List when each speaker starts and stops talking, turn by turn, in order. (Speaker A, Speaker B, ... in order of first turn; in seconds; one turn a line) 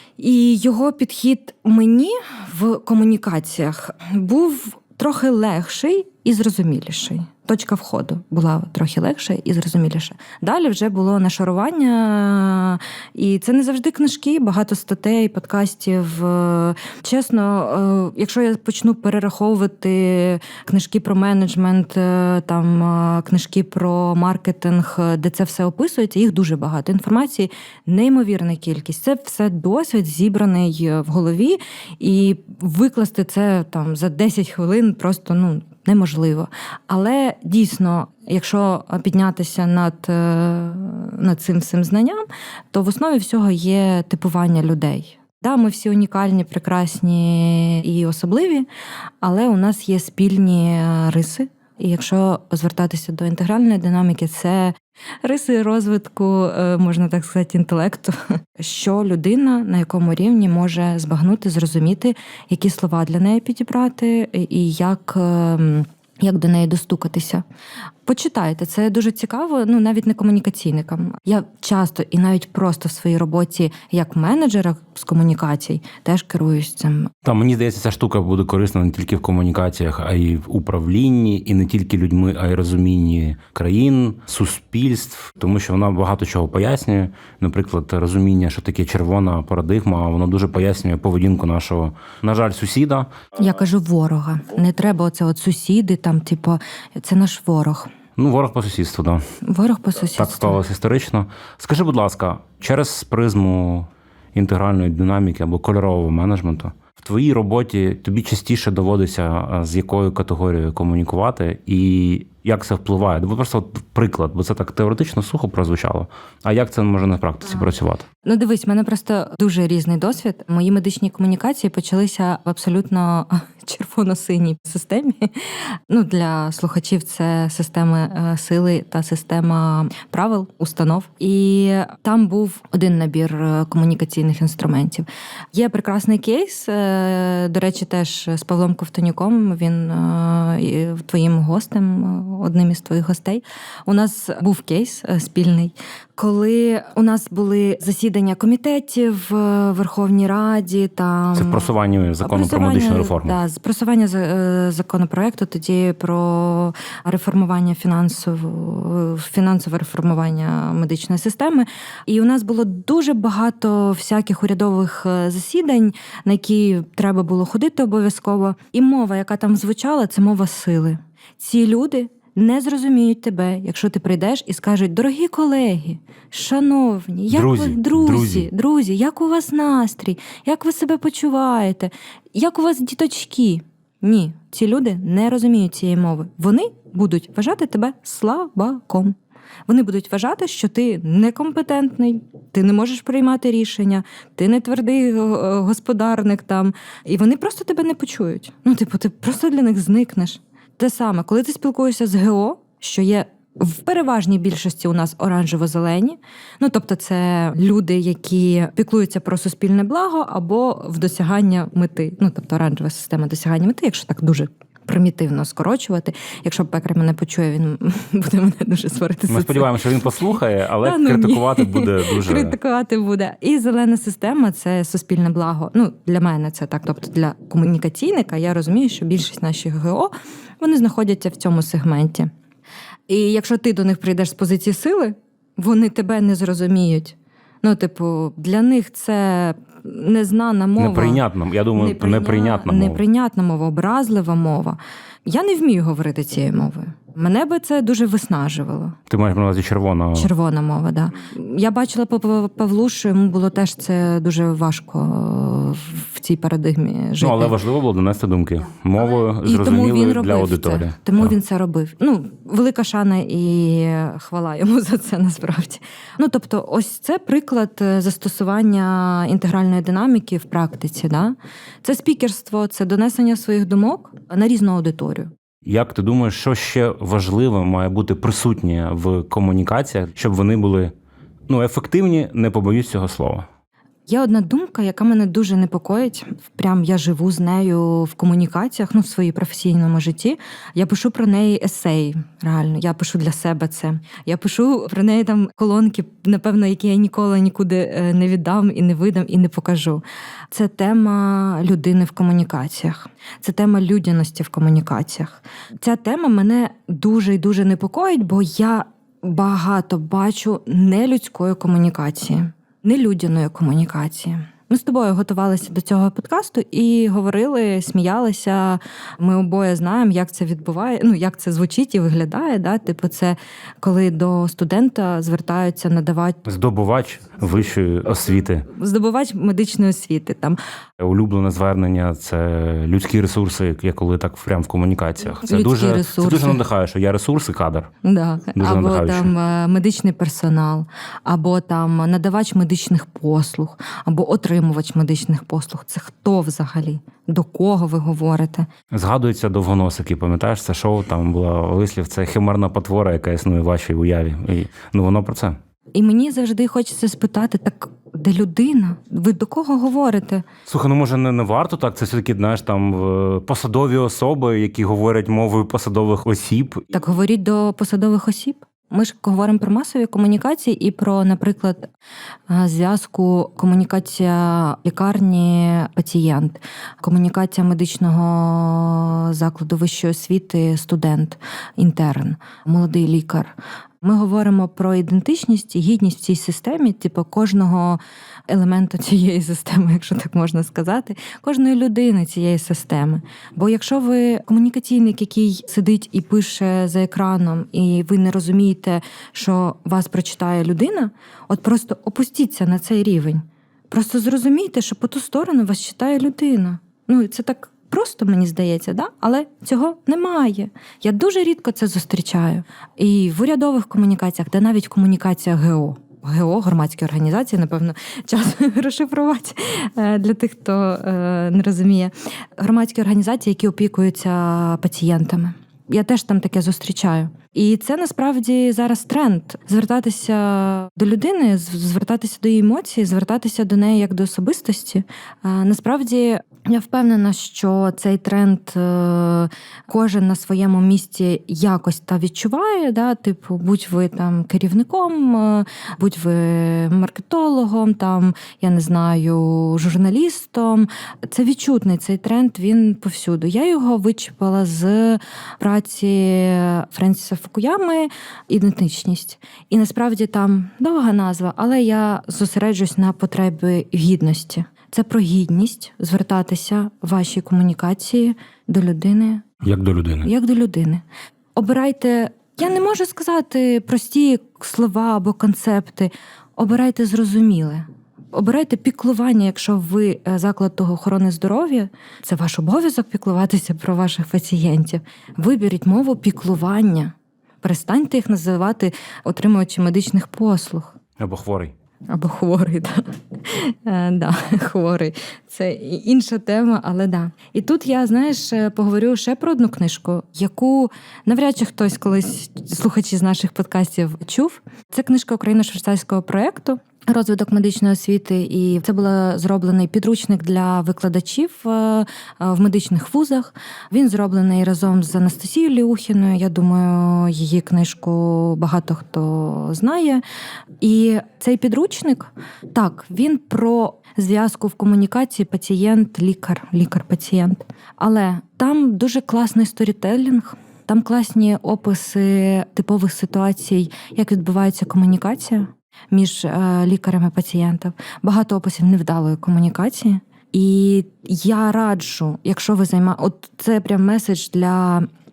Speaker A: 0.2-48.7
Speaker A: 49.2-67.4
Speaker A: 68.0-77.1
Speaker B: 77.2-93.1
Speaker A: 93.4-97.9
Speaker B: 98.2-99.2
Speaker A: 99.4-100.6
Speaker B: 100.2-118.0
Speaker A: 118.2-189.1
Speaker B: 151.3-153.3
Speaker B: 177.3-178.5
Speaker A: 189.7-220.2
Speaker B: 219.3-222.6
Speaker A: 220.8-232.3
Speaker A: 233.1-241.2
Speaker B: 240.8-243.0
Speaker A: 241.7-249.0
Speaker B: 249.1-250.3
Speaker A: 250.1-257.6
Speaker B: 257.2-261.3
Speaker A: 259.1-275.3
Speaker B: 275.6-280.9
Speaker B: 281.5-283.4
Speaker A: 284.1-326.4
Speaker B: 326.4-328.7
Speaker A: 328.7-330.6
Speaker B: 331.0-337.9
Speaker A: 335.4-336.6
Speaker A: 338.0-348.7
Speaker B: 338.6-339.3
Speaker B: 348.9-355.6
Speaker A: 355.9-360.5
Speaker B: 360.6-366.8
Speaker A: 366.9-371.9
Speaker A: 372.5-469.5
Speaker B: 469.6-470.3
Speaker A: 470.2-471.0
Speaker A: 471.6-490.9
Speaker B: 491.2-491.7
Speaker A: 492.1-520.2
Speaker A: 520.8-545.0